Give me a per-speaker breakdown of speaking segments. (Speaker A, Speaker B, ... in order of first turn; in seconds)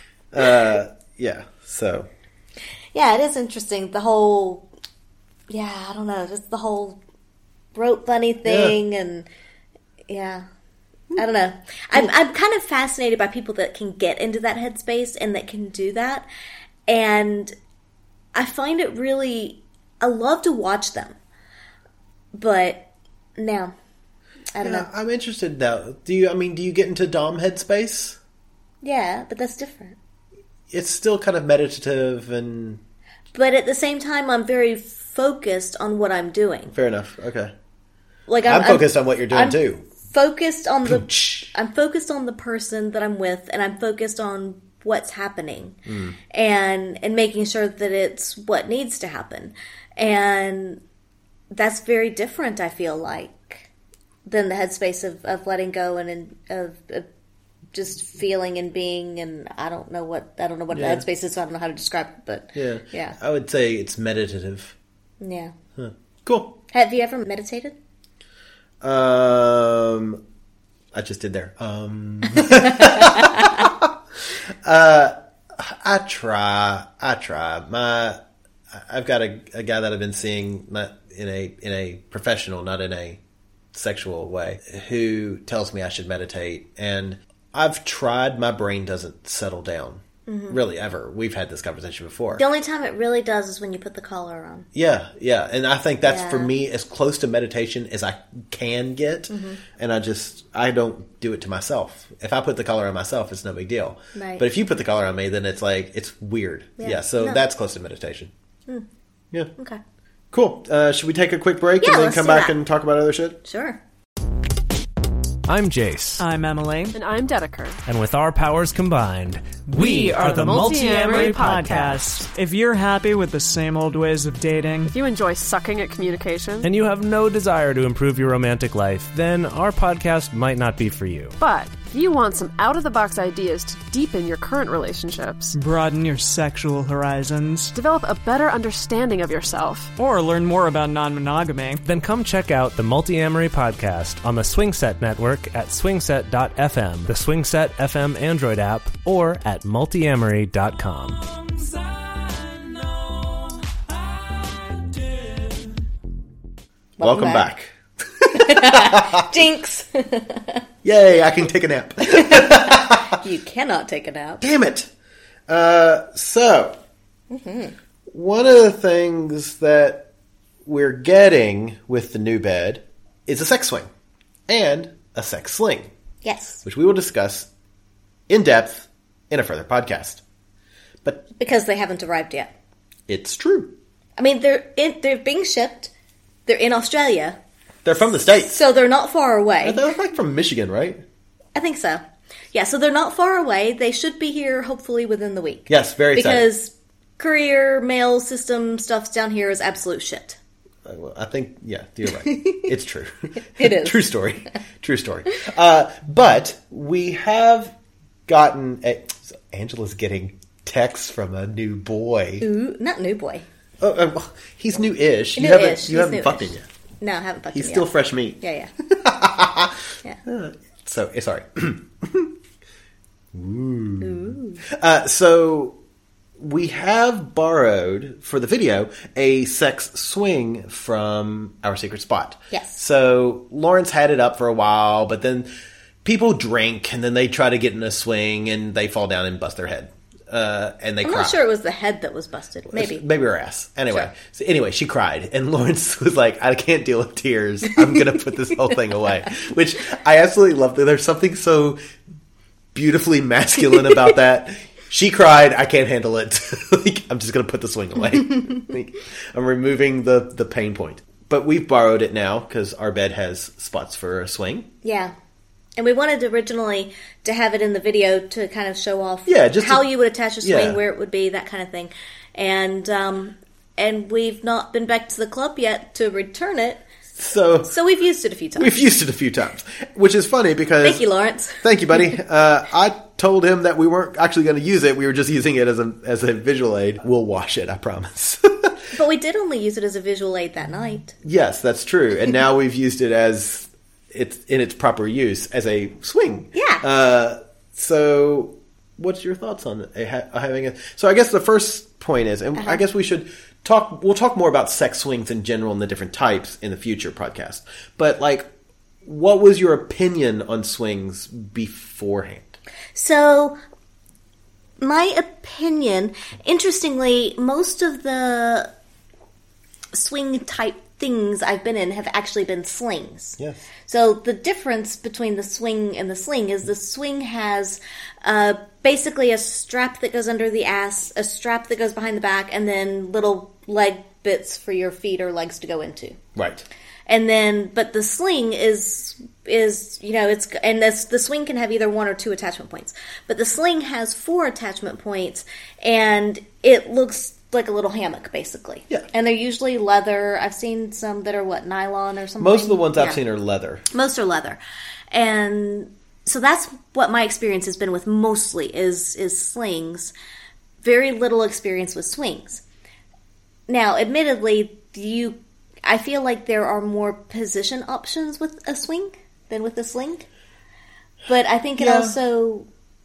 Speaker A: 0.3-2.1, 8.4-8.8, 24.6-28.2, 30.7-32.8, 36.7-37.5, 38.4-39.9, 40.8-41.5, 45.9-46.2, 60.7-61.0, 62.5-64.7, 65.8-66.6, 68.8-70.2, 70.9-78.2, 78.7-83.2, 83.7-92.4, 94.7-108.3, 110.3-113.4, 157.0-159.3, 160.8-163.2, 164.4-164.9, 165.5-166.8, 168.1-170.1, 170.6-173.9, 174.5-175.9, 176.6-177.5, 178.3-180.2, 183.1-183.7, 187.8-188.6, 189.6-191.0, 195.7-196.5, 200.8-207.7, 208.3-212.4, 213.8-216.7, 217.5-222.3, 223.3-225.8, 226.4-235.5, 236.0-241.4, 242.7-251.8, 252.7-264.7, 269.2-269.9, 270.4-270.8, 277.1-277.7, 278.6-288.8, 291.2-308.5, 309.0-312.6, 323.4-323.6, 336.4-336.6, 352.4-353.9, 371.8-372.1
Speaker B: 2.9-4.7, 5.5-7.0, 7.7-9.3, 10.1-10.4, 11.2-16.2, 16.9-17.5, 18.3-21.1, 22.3-22.8, 23.4-23.7, 24.5-24.9, 28.8-29.9, 33.3-36.7, 38.3-45.8, 46.3-50.8, 51.5-53.7, 54.2-57.1, 57.7-63.2, 65.2-65.5, 66.7-67.7, 72.3-73.7, 90.3-90.6, 92.3-94.7, 96.0-96.5, 99.3-99.6, 104.1-104.4, 106.8-107.4, 111.8-112.6, 113.4-113.8, 157.0-157.5, 158.3-160.6, 162.1-164.4, 167.3-167.7, 176.2-176.6, 181.3-182.5, 184.2-185.9, 186.5-187.4, 188.0-189.8, 191.5-200.4, 202.1-202.7, 203.4-204.1, 212.4-213.4, 215.3-218.7, 224.0-224.6, 232.5-232.8, 241.0-243.0, 264.8-265.1, 265.8-276.8, 277.6-278.8, 280.8-281.6, 288.9-291.1, 296.5-296.8, 312.9-313.6, 314.8-318.7, 319.9-336.2, 337.1-353.2, 353.9-354.6, 355.1-360.1, 360.8-362.6, 363.7-370.3, 371.3-372.7
Speaker C: 115.5-116.2, 117.8-121.9, 126.6-131.3, 141.8-151.6, 152.3-153.4
Speaker D: 116.2-117.0, 119.7-124.9, 135.5-137.7, 139.9-141.8
Speaker E: 116.9-117.8, 120.1-122.0, 124.8-126.7, 131.4-135.6, 137.7-139.9